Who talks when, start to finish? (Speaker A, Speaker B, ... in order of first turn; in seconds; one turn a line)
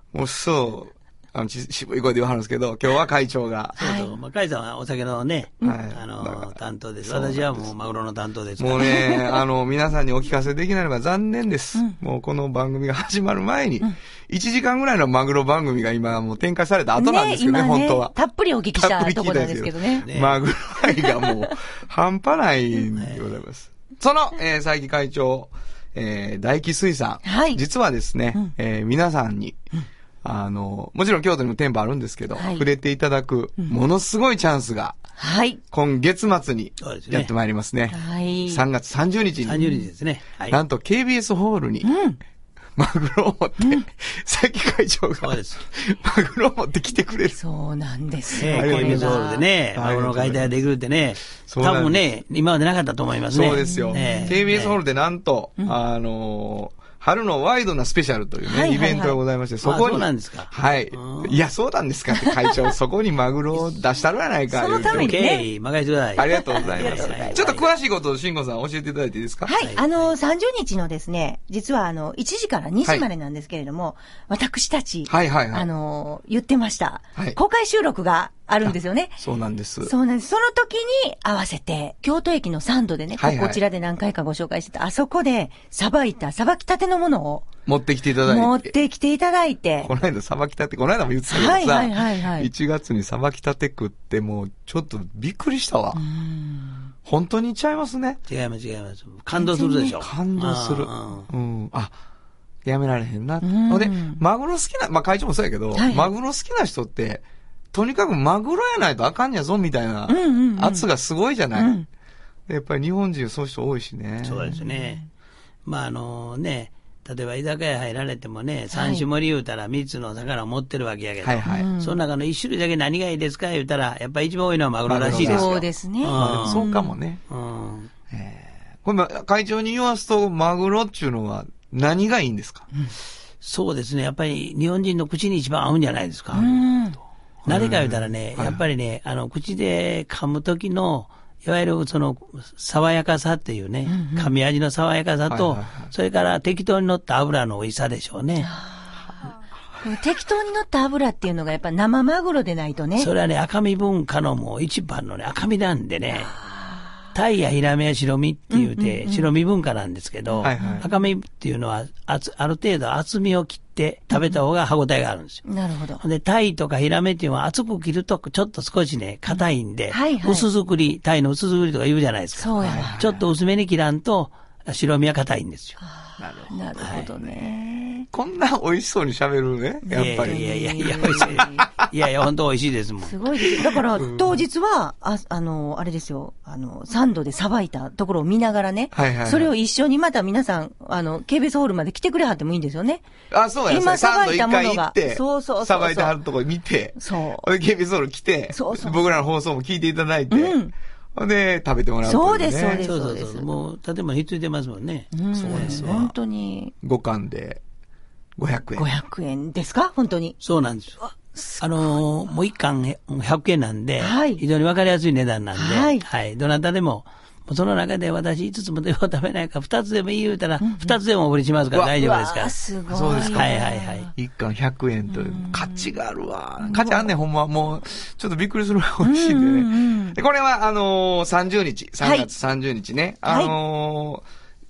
Speaker A: 0.1-3.8
Speaker B: 3.8-4.1
Speaker C: 3.8-9.0
Speaker A: 5.6-7.7
Speaker A: 8.6-18.1
Speaker B: 8.8-9.4
Speaker B: 17.0-20.1
Speaker A: 18.7-29.6
Speaker C: 20.0-20.4
Speaker B: 20.8-21.5
Speaker C: 23.0-23.2
Speaker B: 27.2-27.6
Speaker A: 30.2-35.0
Speaker B: 32.3-32.6
Speaker B: 35.2-35.6
Speaker A: 35.7-39.7
Speaker C: 36.8-37.3
Speaker B: 37.9-38.6
Speaker C: 39.4-40.6
Speaker A: 40.5-41.9
Speaker B: 41.8-42.2
Speaker A: 42.8-47.4
Speaker C: 45.2-45.6
Speaker B: 47.3-49.5
Speaker A: 48.4-49.2
Speaker C: 48.4-54.8
Speaker A: 49.7-50.5
Speaker A: 51.5-52.0
Speaker A: 53.3-65.2
Speaker B: 53.6-54.3
Speaker B: 58.4-59.2
Speaker C: 59.6-61.3
Speaker B: 62.2-62.5
Speaker B: 64.5-65.5
Speaker C: 64.8-67.7
Speaker A: 66.2-69.5
Speaker B: 66.3-67.5
Speaker B: 69.4-79.2
Speaker C: 69.6-70.1
Speaker A: 75.1-75.7
Speaker A: 78.7-79.9
Speaker B: 79.8-87.5
Speaker A: 83.2-83.6
Speaker A: 87.7-88.7
Speaker B: 88.2-89.9
Speaker A: 89.8-96.0
Speaker B: 91.3-92.5
Speaker B: 95.9-96.9
Speaker A: 97.0-98.2
Speaker C: 98.3-101.3
Speaker B: 99.3-100.0
Speaker A: 100.0-101.9
Speaker A: 102.6-111.7
Speaker B: 103.4-104.2
Speaker B: 105.7-106.1
Speaker B: 110.1-110.8
Speaker B: 111.5-111.9
Speaker A: 112.5-114.5
Speaker C: 114.2-115.0
Speaker B: 114.5-115.0
Speaker C: 115.6-126.7
Speaker B: 118.7-119.0
Speaker A: 121.2-121.7
Speaker B: 121.5-122.0
Speaker A: 124.9-127.2
Speaker B: 125.1-126.9
Speaker C: 127.3-127.9
Speaker A: 128.1-132.7
Speaker C: 133.4-136.6
Speaker B: 136.3-137.0
Speaker C: 137.4-148.5
Speaker A: 137.5-138.6
Speaker B: 143.9-144.3
Speaker A: 145.3-145.9
Speaker B: 148.4-149.1
Speaker B: 149.8-153.1
Speaker C: 153.0-156.4
Speaker B: 156.2-156.9
Speaker C: 157.1-165.4
Speaker B: 158.5-159.3
Speaker B: 160.3-160.8
Speaker A: 160.4-160.9
Speaker B: 165.4-166.0
Speaker C: 166.0-175.8
Speaker B: 169.3-170.5
Speaker B: 172.4-173.0
Speaker A: 172.6-173.2
Speaker B: 175.8-178.1
Speaker A: 176.2-177.4
Speaker C: 176.8-177.1
Speaker A: 178.1-181.8
Speaker B: 179.8-181.7
Speaker C: 179.9-183.1
Speaker B: 183.0-193.0
Speaker A: 183.6-184.4
Speaker A: 188.9-189.5
Speaker A: 193.3-200.6
Speaker B: 193.7-196.1
Speaker B: 196.9-197.5
Speaker B: 198.5-199.1
Speaker B: 200.3-200.7
Speaker A: 201.1-202.8
Speaker B: 202.0-203.5
Speaker C: 202.8-206.1
Speaker B: 205.1-206.7
Speaker A: 205.3-206.1
Speaker A: 206.8-207.6
Speaker A: 208.4-208.9
Speaker B: 208.8-210.4
Speaker C: 210.4-222.5
Speaker B: 211.3-211.8
Speaker B: 214.0-214.4
Speaker B: 215.5-216.0
Speaker B: 220.6-220.9
Speaker B: 222.0-224.1
Speaker A: 222.9-234.2
Speaker C: 223.1-224.1
Speaker B: 225.1-225.9
Speaker B: 226.6-227.1
Speaker B: 229.0-230.2
Speaker B: 232.0-232.3
Speaker B: 233.2-233.5